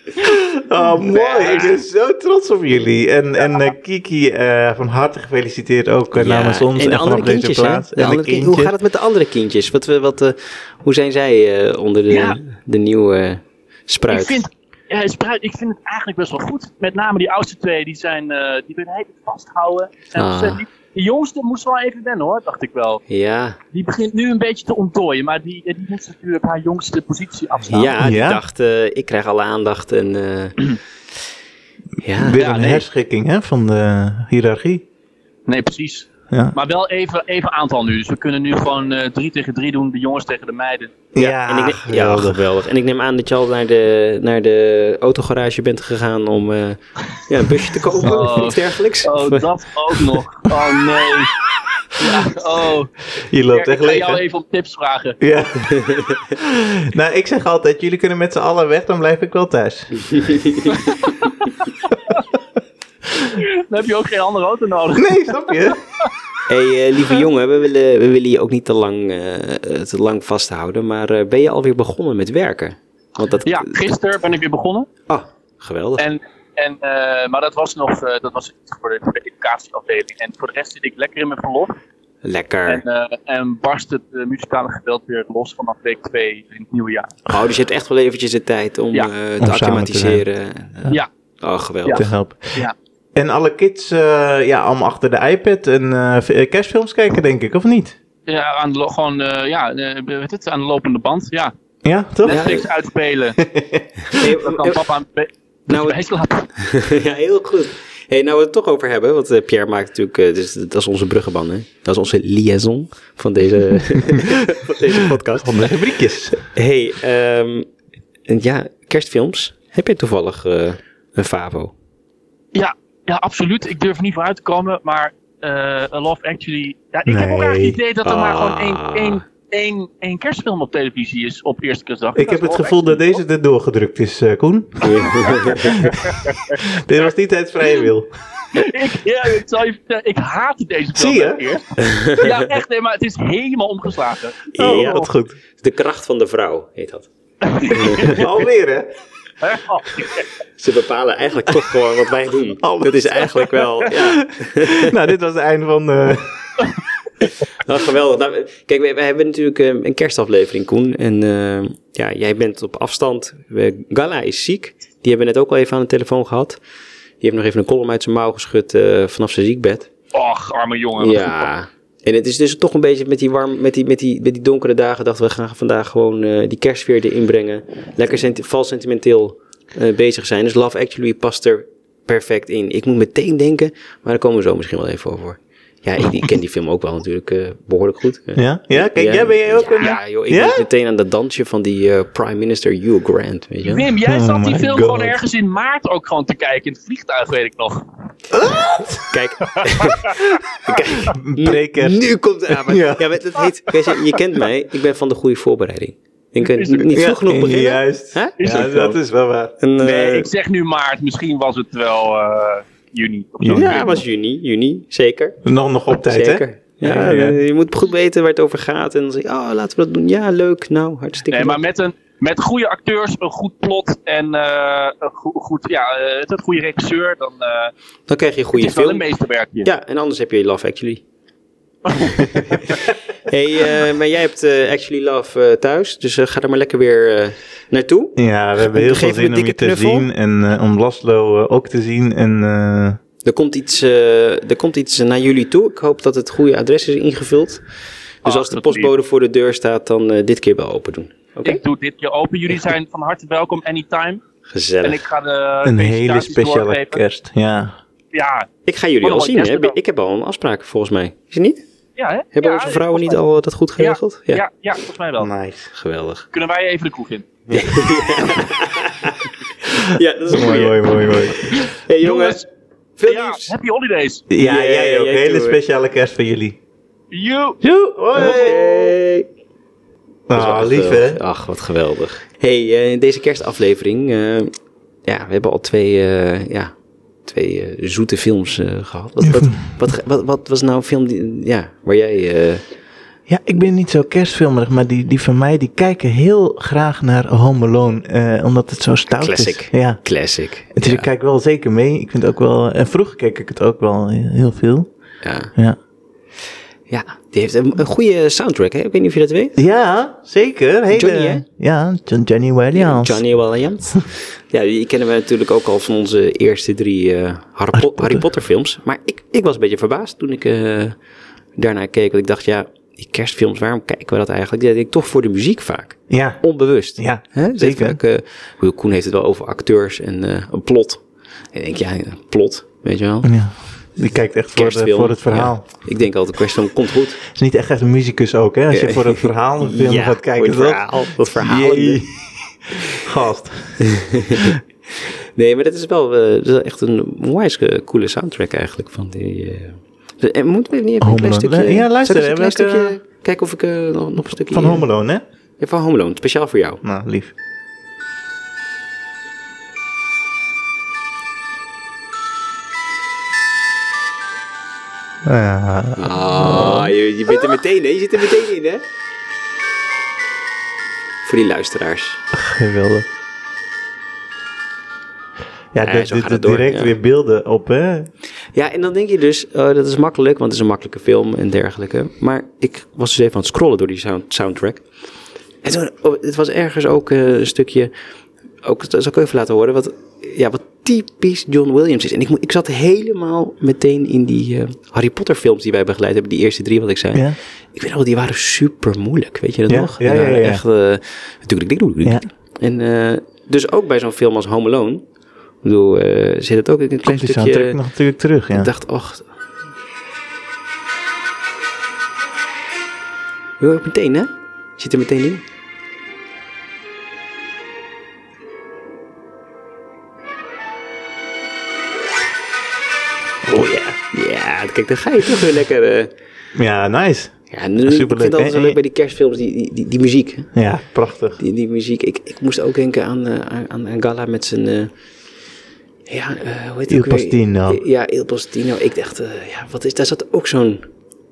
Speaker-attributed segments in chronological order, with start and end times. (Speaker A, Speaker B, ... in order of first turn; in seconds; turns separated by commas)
Speaker A: 0.2-8.7, Speaker B: 1.0-1.8, Speaker C: 6.1-14.5, Speaker B: 12.1-12.4, Speaker B: 14.1-23.0, Speaker C: 20.1-20.6, Speaker C: 23.1-23.6, Speaker B: 23.7-27.9, Speaker C: 27.6-30.6, Speaker A: 28.0-28.4, Speaker C: 32.0-32.4, Speaker A: 32.1-34.8, Speaker B: 32.4-32.8, Speaker B: 35.5-41.1, Speaker A: 41.1-42.4, Speaker C: 41.2-50.2, Speaker B: 48.0-51.4, Speaker B: 52.0-52.9, Speaker A: 53.2-54.2, Speaker B: 53.5-55.2, Speaker A: 55.2-60.4, Speaker C: 55.7-56.1, Speaker C: 60.2-60.7, Speaker B: 60.7-62.2, Speaker B: 63.3-66.1, Speaker A: 64.9-65.8, Speaker C: 66.5-73.7, Speaker B: 73.5-74.9, Speaker C: 75.1-76.0, Speaker B: 76.0-81.7, Speaker C: 82.2-82.8, Speaker B: 82.7-87.1, Speaker C: 87.3-92.0, Speaker A: 89.4-90.2, Speaker A: 91.9-98.0, Speaker B: 98.3-101.5, Speaker A: 101.8-102.6, Speaker B: 102.2-103.4, Speaker C: 102.3-102.6, Speaker A: 103.4-103.9, Speaker C: 104.1-104.8, Speaker B: 104.2-106.5, Speaker C: 105.7-106.0, Speaker C: 106.5-115.7, Speaker A: 115.4-116.4, Speaker C: 116.4-117.7, Speaker C: 118.3-121.7, Speaker B: 122.5-133.2, Speaker A: 127.1-127.8, Speaker C: 128.0-129.2, Speaker A: 132.2-138.1, Speaker C: 134.8-135.8, Speaker B: 135.4-136.6, Speaker B: 138.5-144.9, Speaker A: 140.9-141.6, Speaker C: 141.8-142.5, Speaker C: 144.5-147.1, Speaker A: 144.6-145.4, Speaker B: 147.4-148.2, Speaker C: 147.7-148.2, Speaker A: 148.0-148.9, Speaker B: 149.4-150.2, Speaker C: 150.6-154.9, Speaker A: 152.6-156.6, Speaker C: 157.6-166.6, Speaker C: 167.2-169.9, Speaker B: 170.1-171.4, Speaker C: 171.0-193.9, Speaker A: 188.3-190.6, Speaker B: 193.6-197.8, Speaker A: 194.0-195.2, Speaker A: 198.3-199.1, Speaker C: 199.1-208.9, Speaker A: 201.1-203.1, Speaker B: 206.4-206.9, Speaker A: 206.9-209.6, Speaker B: 208.4-208.9, Speaker C: 209.6-210.3, Speaker B: 209.8-214.0, Speaker A: 213.4-213.8, Speaker C: 213.5-215.4, Speaker A: 215.4-217.4, Speaker C: 216.0-221.6, Speaker B: 221.3-227.7, Speaker C: 228.1-229.0, Speaker B: 228.6-229.7, Speaker C: 229.6-231.0, Speaker B: 231.9-232.3, Speaker C: 233.3-240.1, Speaker A: 238.2-243.0, Speaker C: 243.2-247.6, Speaker C: 248.2-251.6, Speaker B: 248.2-248.9, Speaker B: 251.4-254.2, Speaker C: 254.5-255.0, Speaker B: 254.8-257.0, Speaker A: 255.6-257.8, Speaker B: 258.1-258.5, Speaker C: 258.6-261.6, Speaker B: 259.0-259.8, Speaker B: 262.0-263.2, Speaker C: 262.3-264.4, Speaker B: 263.8-265.3, Speaker A: 265.2-265.7, Speaker C: 265.7-266.2, Speaker B: 266.3-267.2, Speaker C: 267.5-269.3, Speaker C: 269.8-272.4, Speaker A: 270.3-271.6, Speaker B: 272.0-272.4, Speaker C: 273.0-273.5, Speaker B: 273.0-274.2, Speaker A: 274.3-276.6, Speaker C: 274.4-275.6, Speaker B: 277.1-277.6, Speaker A: 277.6-278.9, Speaker C: 278.1-279.2, Speaker A: 280.3-281.2, Speaker C: 280.3-284.5, Speaker C: 285.0-286.7, Speaker C: 287.2-292.6, Speaker A: 289.2-289.6, Speaker A: 293.3-300.0, Speaker C: 299.1-301.1, Speaker A: 300.7-304.9, Speaker C: 305.2-305.5, Speaker C: 306.9-309.6, Speaker A: 309.6-313.2, Speaker C: 310.9-311.4, Speaker C: 312.7-321.0, Speaker A: 317.7-318.2, Speaker C: 321.6-333.3, Speaker A: 326.1-328.0, Speaker A: 333.2-335.6, Speaker C: 334.5-337.2, Speaker A: 337.3-344.4, Speaker C: 338.7-342.0, Speaker C: 343.8-354.9, Speaker A: 351.0-352.9, Speaker A: 354.2-355.2, Speaker C: 355.6-356.8, Speaker A: 356.8-357.3, Speaker A: 365.2-366.9, Speaker C: 366.0-368.8, Speaker C: 371.2-372.2, Speaker A: 372.3-373.1, Speaker A: 375.7-378.1, Speaker C: 375.8-376.9, Speaker C: 378.5-384.8, Speaker C: 385.6-387.9, Speaker C: 388.6-405.0, Speaker A: 399.7-400.6, Speaker C: 405.6-407.8, Speaker A: 407.0-408.7, Speaker C: 408.5-409.3, Speaker C: 413.6-415.4, Speaker A: 423.5-423.9, Speaker C: 423.5-426.1, Speaker A: 426.5-428.8, Speaker C: 427.5-430.5, Speaker A: 430.5-431.4, Speaker C: 431.4-434.9, Speaker C: 436.1-440.9, Speaker A: 436.9-437.8